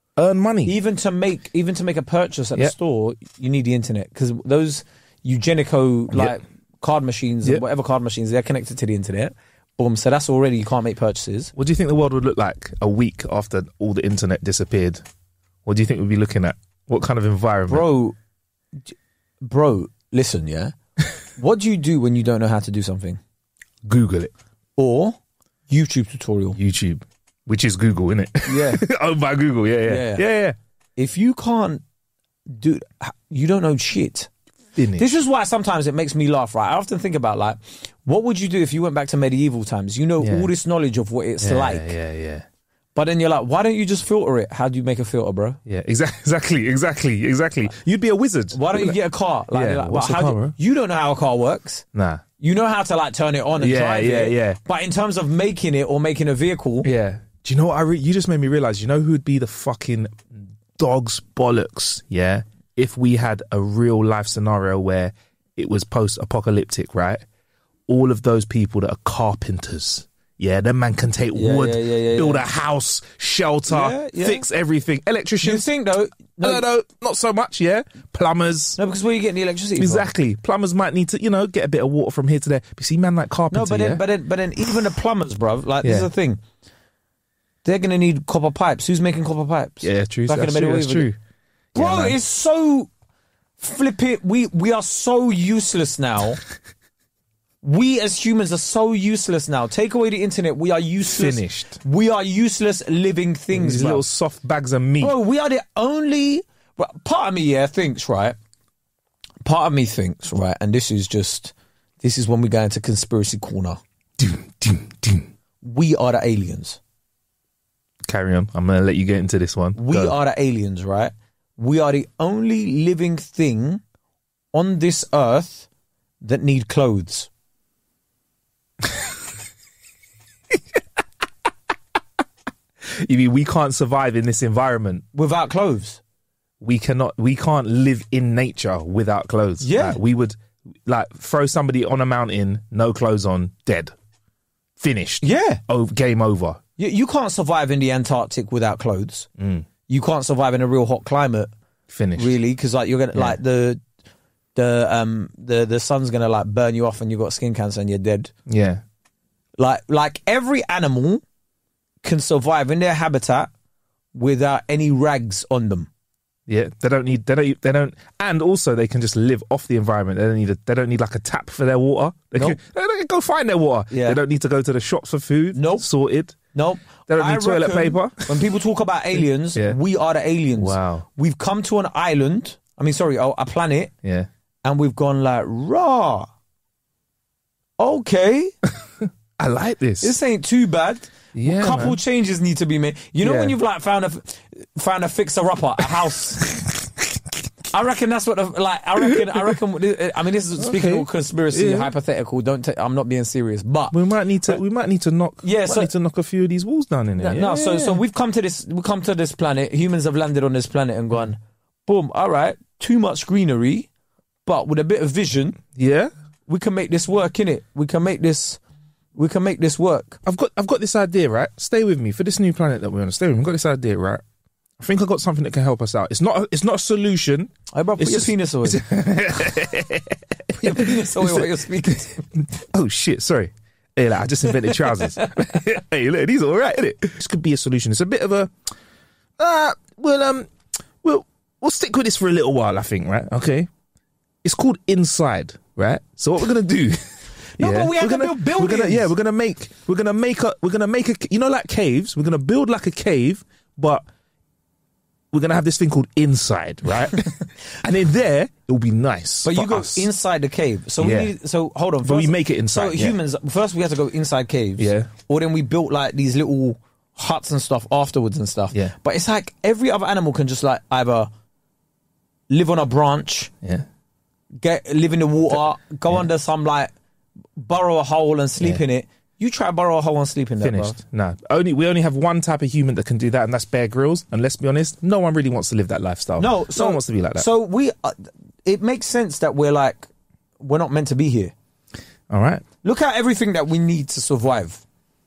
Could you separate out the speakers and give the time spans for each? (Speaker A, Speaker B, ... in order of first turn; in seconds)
Speaker A: 0.2-0.8, 11.6-15.0, 15.6-17.9, 23.8-24.3, 26.6-30.6, 34.8-35.0, 40.2-40.5, 41.4-42.4, 45.6-49.0, 49.5-50.5, 51.9-52.2, 53.6-54.6, 56.8-67.2, 67.9-75.6, 76.4-78.8, 79.8-84.0, 85.8-86.1, 89.8-91.1, 91.7-92.2, 101.0-101.8, 103.5-105.1, 114.2-115.3, 118.1-120.2, 133.0-135.0, 136.6-143.9, 144.8-146.6, 149.4-149.7, 151.9-152.3, 158.5-158.8, 166.5-176.4, 177.1-178.4, 180.6-181.1, 189.0-190.1, 191.3-192.0, 193.2-193.6, 196.4-197.1, 200.6-201.9, 203.9-208.0, 215.8-216.1, 220.2-224.2, 224.8-238.5, 239.4-240.5, 241.0-243.7, 244.4-254.0, 255.3-260.1, 261.0-261.3, 262.0-263.2, 264.8-265.1, 280.6-287.4, 292.3-292.6
Speaker B: 0.6-11.5, 17.7-18.2, 18.9-20.7, 21.4-23.2, 24.8-25.2, 25.7-26.6, 28.5-28.9, 29.9-30.2, 31.0-31.8, 32.5-34.3, 35.0-41.9, 42.9-45.6, 48.5-51.9, 52.4-56.9, 71.3-72.5, 73.7-74.4, 75.4-76.6, 78.8-80.1, 83.5-86.4, 87.6-91.1, 91.8-92.9, 93.6-96.4, 97.6-104.0, 105.0-108.3, 109.4-113.8, 115.6-116.8, 119.7-123.8, 124.5-125.7, 126.2-127.3, 135.1-136.0, 139.6-140.0, 145.2-145.6, 146.8-149.3, 149.9-151.5, 152.2-153.8, 154.5-158.3, 159.6-161.2, 162.0-163.5, 164.1-165.9, 173.9-174.2, 175.5-175.8, 176.5-183.9, 184.6-186.3, 187.8-188.5, 190.0-196.4, 197.7-204.0, 205.4-205.9, 207.2-213.9, 214.4-215.6, 216.5-218.6, 219.2-220.2, 227.7-229.5, 230.5-232.2, 234.5-235.3, 247.6-249.1, 259.4-271.3, 272.5-273.5, 274.6-276.9, 277.6-281.0, 286.4-290.1, 290.6-291.5, 292.8-294.8